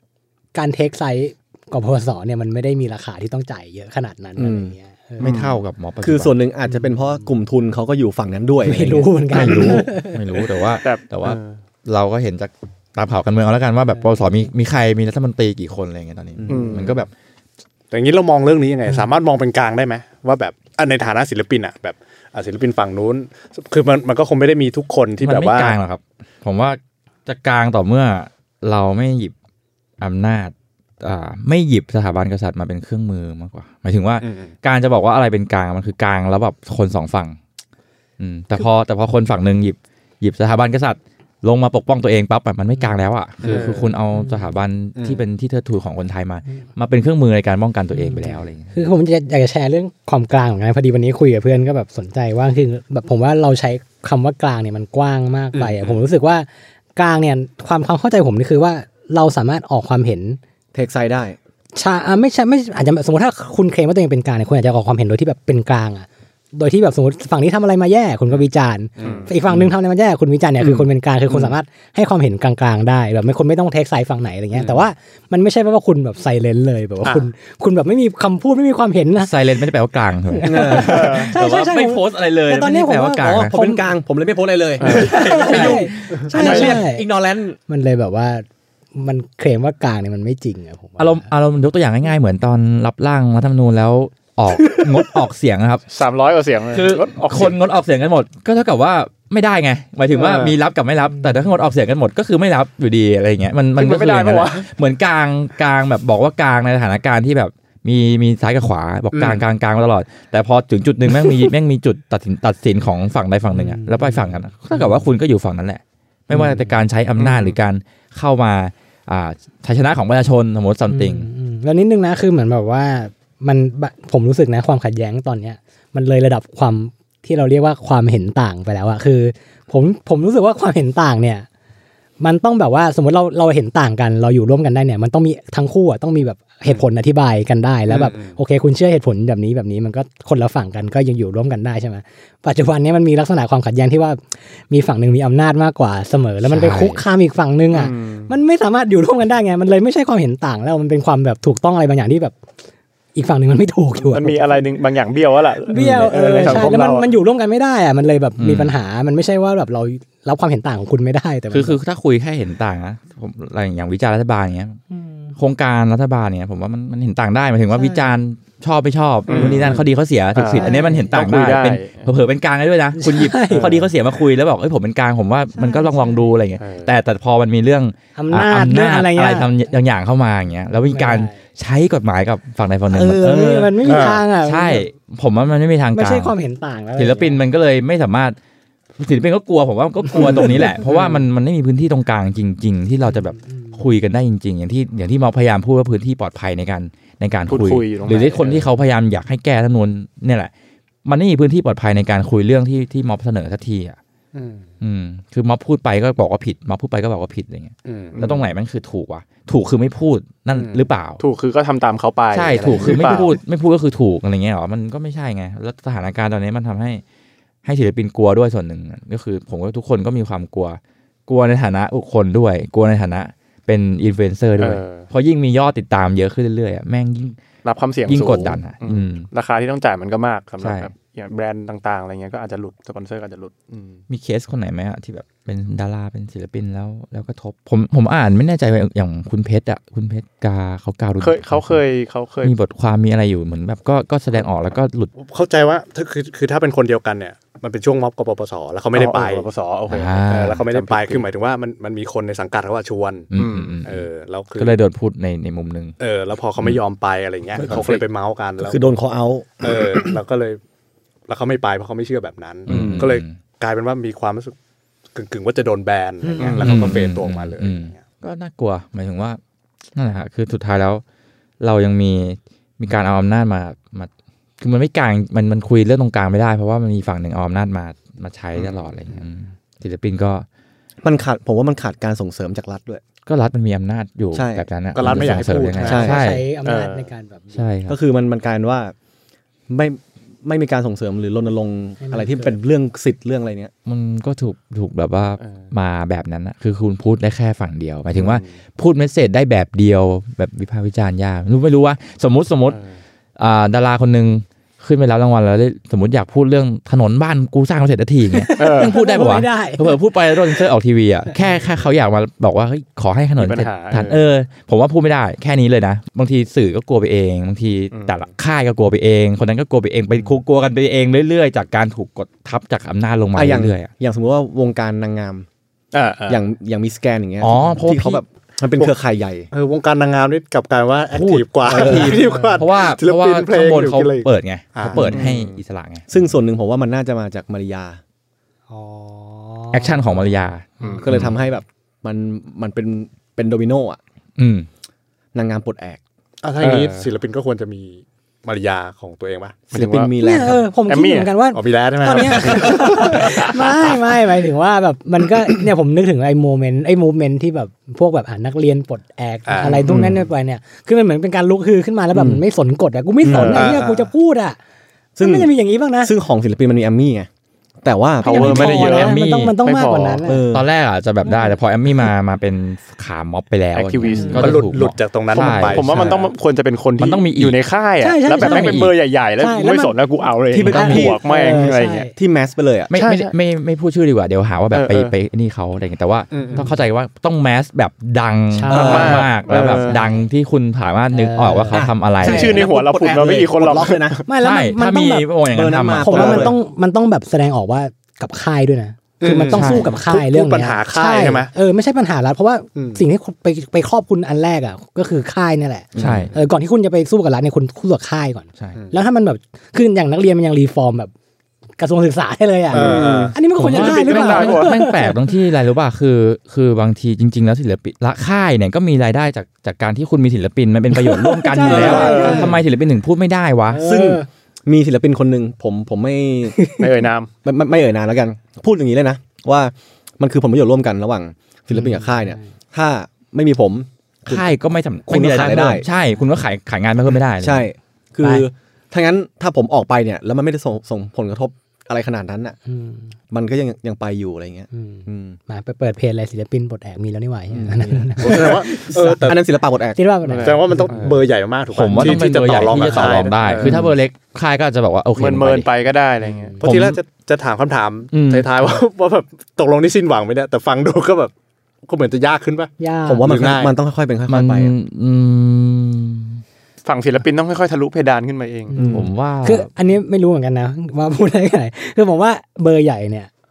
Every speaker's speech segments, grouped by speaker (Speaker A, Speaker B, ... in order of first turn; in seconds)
Speaker A: 0.5-5.3, 6.7-7.0, 8.6-10.2, 44.1-44.5, 48.0-60.4, 61.8-79.3, 80.3-83.9, 84.9-87.1, 87.7-91.3, 113.5-114.9, 116.4-116.8, 120.9-131.5, 132.2-152.3, 153.2-154.4, 155.7-161.8, 164.9-165.3, 167.7-168.2, 170.5-171.2, 172.9-173.8, 175.5-176.3, 178.2-179.6, 180.9-181.4, 182.9-184.9, 185.9-187.4, 266.2-266.6, 285.9-287.7, 292.0-292.6, 308.3-310.0, 332.2-332.6, 338.7-340.3, 350.2-364.6, 365.2-366.1, 368.2-370.4, 371.2-371.6, 374.1-374.5, 378.0-378.9, 379.4-380.0, 380.7-382.1, 386.4-386.7, 388.5-390.3, 391.1-391.9, 394.3-395.3, 395.9-411.1, 411.8-415.4, 420.9-422.6, 423.7-424.3, 426.5-426.9, 431.7-432.5, 438.2-438.5, 442.7-443.1, 444.7-449.2, 449.9-451.1, 462.8-463.2, 468.7-473.3
Speaker B: 4.4-4.7, 6.0-9.8, 16.4-16.9, 60.7-61.4, 80.4-81.2, 83.2-87.6, 258.6-260.2, 281.0-283.0, 284.3-286.2, 287.9-288.9, 289.7-293.7, 323.4-325.5, 326.3-329.5, 331.8-332.1, 334.8-335.3, 336.1-338.0, 341.0-344.0, 345.3-346.0, 349.7-350.7, 359.9-360.3, 362.1-362.4, 363.2-363.8, 365.2-367.3, 367.8-368.9, 370.3-370.7, 380.5-382.9, 388.7-389.3, 391.7-394.2, 395.5-396.6, 405.9-406.4, 412.7-413.4, 421.8-422.4, 423.8-426.7, 427.4-434.5, 435.1-435.9, 437.4-442.6, 443.3-445.4, 447.5-450.0, 453.6-453.9, 463.1-464.7, 468.8-469.1
Speaker C: 5.2-5.6, 10.8-11.6, 16.5-17.0, 69.0-69.3, 80.9-81.2, 84.8-85.2, 86.3-86.8, 95.9-97.6, 103.8-104.7, 147.7-148.3, 154.1-157.1, 169.3-169.8, 170.3-172.1, 173.5-173.9, 176.6-176.9, 190.8-191.2, 197.5-198.7, 211.2-213.3, 224.6-225.1, 227.6-234.0, 241.2-242.5, 248.9-251.3, 253.4-253.8, 257.6-258.0, 262.7-263.1, 266.4-267.0, 286.6-287.1, 295.4-295.7, 302.7-303.0, 308.6-309.0, 313.4-314.2, 317.9-318.3, 325.9-326.4, 335.0-335.6, 346.6-347.1, 349.7-350.1, 350.9-351.4, 353.1-353.5, 359.5-359.9, 363.3-363.8, 368.2-370.3, 373.8-374.7, 375.3-382.1, 382.9-383.3, 384.7-385.1, 388.7-390.0, 392.2-394.2, 412.7-414.8, 421.7-422.6, 426.8-427.3, 450.3-451.2, 452.2-453.8, 455.2-456.6, 466.9-468.8
Speaker D: 5.2-6.4, 9.3-17.1, 25.2-29.3, 30.0-37.4, 38.2-48.7, 79.2-83.6, 85.4-85.9, 91.0-95.8, 96.7-121.3, 146.4-147.0, 155.8-156.6, 158.4-158.8, 161.5-164.8, 165.4-186.3, 187.0-188.4, 189.0-200.5, 201.1-204.0, 204.8-211.2, 212.3-217.0, 217.6-227.4, 228.1-229.3, 230.6-230.9, 234.1-241.8, 242.4-245.1, 249.9-250.6, 253.3-255.9, 262.7-263.4, 266.6-269.4, 269.9-271.0, 271.6-280.5, 283.3-286.5, 287.5-288.0, 293.9-302.8, 303.4-323.9, 327.4-328.2, 331.1-336.1, 339.7-341.4, 344.4-344.7, 368.4-369.6, 370.5-376.2, 377.0-377.6, 378.4-378.9, 380.7-381.0, 382.9-392.6, 394.4-396.5, 399.5-400.0, 406.0-406.4, 413.6-423.8, 434.3-437.7, 451.7-455.7, 456.6-457.0, 458.1-458.5, 464.3-466.4, 468.9-469.7
Speaker E: 17.9-25.8, 34.2-34.5, 43.4-43.9, 45.0-45.2, 69.0-69.3, 137.9-138.4, 183.9-184.2, 204.3-204.7, 207.9-208.3, 210.5-210.8, 212.8-213.2, 245.2-249.5, 250.3-253.3, 253.8-254.8, 256.0-258.9, 259.6-260.6, 261.3-264.6, 265.1-268.0, 284.9-286.2, 329.5-335.3, 346.4-349.7, 351.5-353.7, 359.5-360.0, 363.5-364.1, 374.3-376.3, 386.3-386.7, 399.2-401.5, 402.8-403.0, 412.7-413.4, 421.7-422.5, 448.2-449.4, 450.4-453.6, 456.6-461.3, 461.9-463.7